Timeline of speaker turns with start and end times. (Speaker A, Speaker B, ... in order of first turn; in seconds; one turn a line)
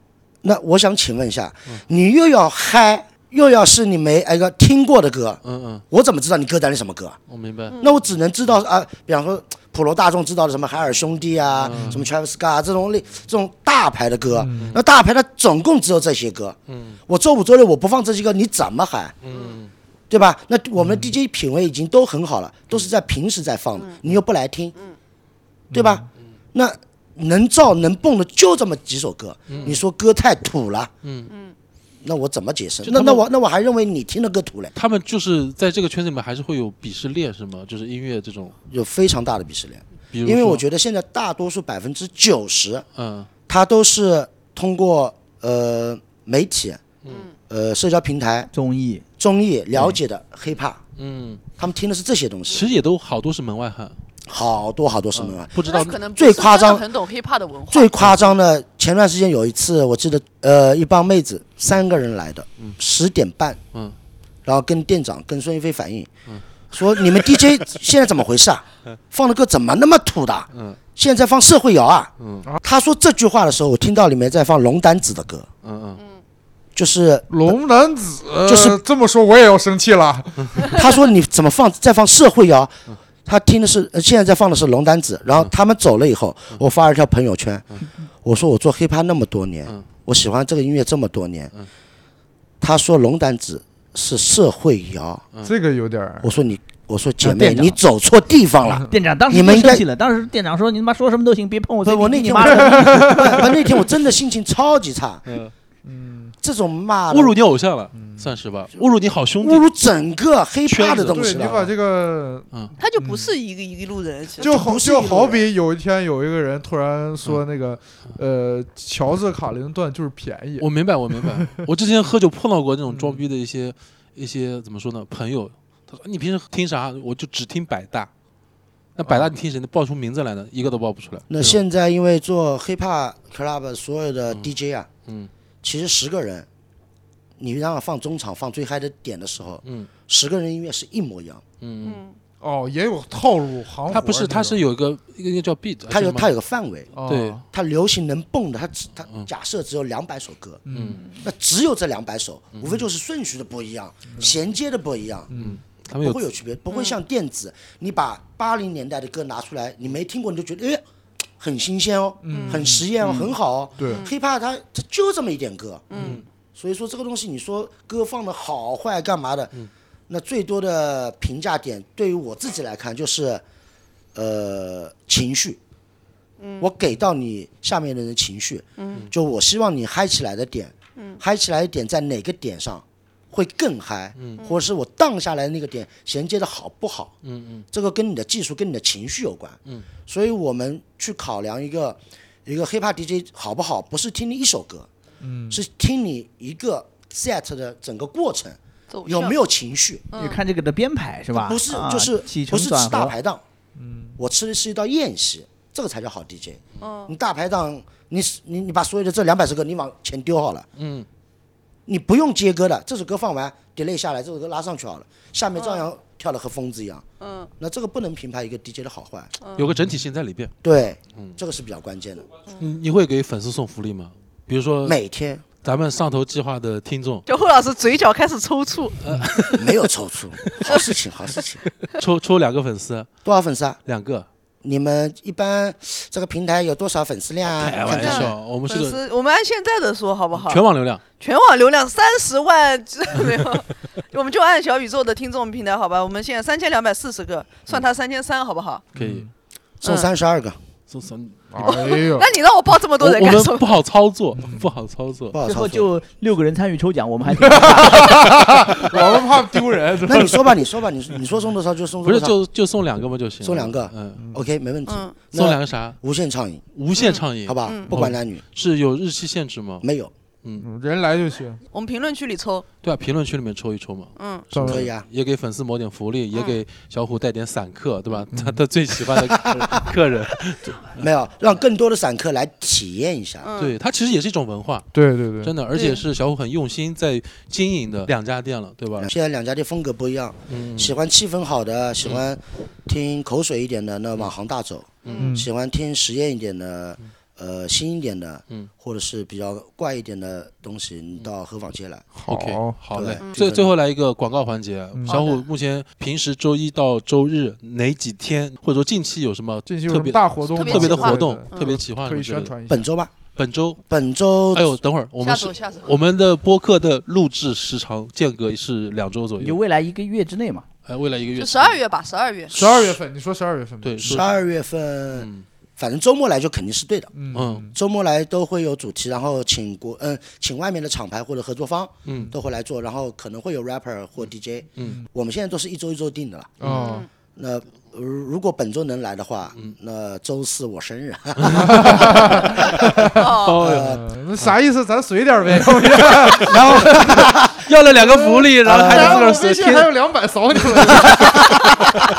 Speaker A: 0.4-5.4
Speaker B: 5.4-5.8
Speaker A: 5.9-7.2
Speaker B: 7.3-7.8
Speaker C: 7.7-8.0
Speaker A: 7.8-16.6
Speaker B: 11.6-12.1
Speaker D: 11.7-12.0
Speaker D: 14.3-14.8
Speaker B: 16.7-17.0
Speaker A: 17.1-19.1
Speaker B: 19.2-19.7
Speaker A: 20.1-24.7
Speaker D: 20.8-21.1
Speaker D: 25.7-26.0
Speaker A: 25.7-30.9
Speaker B: 29.5-29.8
Speaker B: 31.0-31.3
Speaker C: 31.3-31.5
Speaker A: 32.0-34.7
Speaker B: 32.8-33.2
Speaker B: 34.7-38.5
Speaker A: 38.7-42.9
Speaker B: 40.1-40.6
Speaker B: 43.0-43.3
Speaker A: 43.5-46.8
Speaker A: 47.5-48.5
Speaker E: 48.5-49.0
Speaker A: 49.2-50.8
Speaker B: 51.0-51.4
Speaker A: 51.6-52.6
Speaker B: 52.5-54.0
Speaker A: 54.3-56.9
Speaker B: 55.1-56.0
Speaker C: 55.6-58.0
Speaker A: 57.7-63.6
Speaker A: 64.4-66.1
Speaker A: 66.7-72.1
Speaker B: 70.5-70.8
Speaker B: 72.2-72.5
Speaker A: 72.6-75.5
Speaker B: 75.6-76.0
Speaker A: 76.7-77.5
Speaker D: 77.3-80.8
Speaker A: 78.4-78.8
Speaker A: 80.7-82.7
Speaker A: 83.2-87.7
Speaker A: 88.2-91.5
Speaker A: 92.6-95.2
Speaker D: 95.4-96.3
Speaker A: 96.2-99.8
Speaker E: 97.2-97.8
Speaker E: 98.9-103.5
Speaker A: 101.8-105.2
Speaker D: 102.5-103.5
Speaker B: 105.2-105.5
Speaker D: 105.8-106.3
Speaker A: 106.4-107.4
Speaker B: 107.1-109.7
Speaker D: 107.9-108.3
Speaker A: 109.4-111.7
Speaker B: 110.7-111.7
Speaker D: 111.1-113.3
Speaker C: 112.8-114.7
Speaker A: 114.4-115.5
Speaker D: 114.4-121.6
Speaker B: 120.6-128.1
Speaker D: 122.9-123.2
Speaker B: 129.0-131.6
Speaker A: 131.3-134.9
Speaker A: 135.6-136.5
Speaker A: 137.4-141.4
Speaker B: 139.6-139.9
Speaker B: 141.6-142.0
Speaker C: 141.8-142.2
Speaker D: 142.4-144.6
Speaker B: 143.9-146.3
Speaker A: 145.9-146.9
Speaker D: 146.9-147.4
Speaker B: 147.1-147.4
Speaker A: 147.5-150.6
Speaker D: 150.7-151.0
Speaker B: 150.7-151.0
Speaker A: 151.2-155.3
Speaker B: 152.6-152.8
Speaker D: 155.3-155.6
Speaker B: 155.3-156.2
Speaker A: 155.9-160.8
Speaker C: 156.7-157.0
Speaker A: 161.4-165.9
Speaker D: 162.2-162.8
Speaker C: 162.3-162.7
Speaker D: 163.8-164.0
Speaker C: 163.8-164.1
Speaker C: 165.9-166.2
Speaker B: 165.9-166.2
Speaker A: 166.5-169.5
Speaker A: 170.1-173.4
Speaker A: 174.1-175.6
Speaker C: 176.4-176.7
Speaker A: 176.6-187.1
Speaker C: 178.8-179.1
Speaker C: 181.0-181.2
Speaker B: 187.2-187.7
Speaker A: 187.7-194.9
Speaker D: 195.2-195.6
Speaker A: 195.5-200.0
Speaker C: 198.9-199.4
Speaker C: 200.1-200.4
Speaker E: 200.1-203.1
Speaker A: 201.3-203.4
Speaker D: 203.8-204.2
Speaker A: 204.2-210.6
Speaker C: 206.8-207.1
Speaker B: 210.8-211.1
Speaker A: 211.9-217.0
Speaker C: 215.6-215.8
Speaker C: 217.2-217.5
Speaker A: 217.6-219.3
Speaker C: 219.4-219.7
Speaker B: 219.6-220.5
Speaker A: 220.6-222.3
Speaker B: 222.6-225.0
Speaker A: 224.8-225.4
Speaker B: 225.6-227.2
Speaker C: 227.2-229.0
Speaker B: 229.0-229.8
Speaker A: 229.5-231.6
Speaker B: 230.4-230.8
Speaker B: 231.8-233.1
Speaker A: 233.2-233.8
Speaker B: 233.8-234.3
Speaker A: 234.6-238.3
Speaker B: 237.5-239.0
Speaker C: 237.8-240.6
Speaker B: 240.3-241.0
Speaker C: 241.2-248.8
Speaker B: 248.9-249.3
Speaker D: 248.9-249.3
Speaker A: 249.8-250.6
Speaker B: 250.9-252.0
Speaker D: 251.5-252.3
Speaker C: 251.6-253.8
Speaker B: 253.0-255.3
Speaker D: 254.3-254.7
Speaker A: 255.3-255.9
Speaker E: 255.4-258.3
Speaker D: 257.3-260.6
Speaker A: 260.0-262.4
Speaker B: 262.0-264.2
Speaker A: 263.4-266.6
Speaker D: 264.2-264.4
Speaker C: 264.9-265.1
Speaker B: 265.3-266.0
Speaker B: 266.8-269.9
Speaker C: 266.9-267.9
Speaker A: 267.4-268.4
Speaker A: 269.8-270.1
Speaker D: 270.6-271.6
Speaker C: 271.7-272.6
Speaker B: 272.8-281.0
Speaker C: 274.2-274.5
Speaker D: 274.5-274.9
Speaker A: 274.6-275.1
Speaker C: 276.3-276.6
Speaker D: 278.3-278.6
Speaker A: 279.3-279.8
Speaker A: 280.9-283.5
Speaker C: 283.4-283.8
Speaker B: 283.6-284.9
Speaker D: 284.9-285.5
Speaker B: 285.4-289.1
Speaker C: 285.7-286.0
Speaker A: 289.0-302.1
Speaker B: 290.5-290.9
Speaker C: 295.1-295.3
Speaker D: 295.2-295.5
Speaker B: 302.2-312.5
Speaker D: 302.2-302.8
Speaker A: 302.9-303.7
Speaker D: 304.9-305.2
Speaker C: 305.1-305.4
Speaker D: 309.7-312.9
Speaker C: 310.5-311.7
Speaker A: 312.7-313.1
Speaker B: 313.4-313.8
Speaker A: 313.9-314.8
Speaker B: 314.5-319.6
Speaker C: 315.2-315.9
Speaker E: 319.4-320.6
Speaker B: 320.9-321.8
Speaker C: 321.4-322.5
Speaker B: 322.5-323.0
Speaker D: 322.5-324.2
Speaker B: 323.8-324.3
Speaker A: 324.0-327.1
Speaker B: 325.1-325.4
Speaker D: 327.1-327.7
Speaker B: 327.3-327.7
Speaker A: 327.7-336.5
Speaker B: 332.1-332.3
Speaker D: 334.8-335.1
Speaker D: 336.6-337.0
Speaker B: 336.6-337.0
Speaker C: 336.7-337.1
Speaker A: 337.4-344.1
Speaker B: 341.4-342.2
Speaker D: 341.6-351.6
Speaker C: 343.1-343.6
Speaker B: 343.2-344.6
Speaker B: 345.5-347.0
Speaker A: 346.4-347.6
Speaker B: 347.6-349.9
Speaker A: 348.6-349.3
Speaker B: 350.7-351.5
Speaker A: 351.1-351.9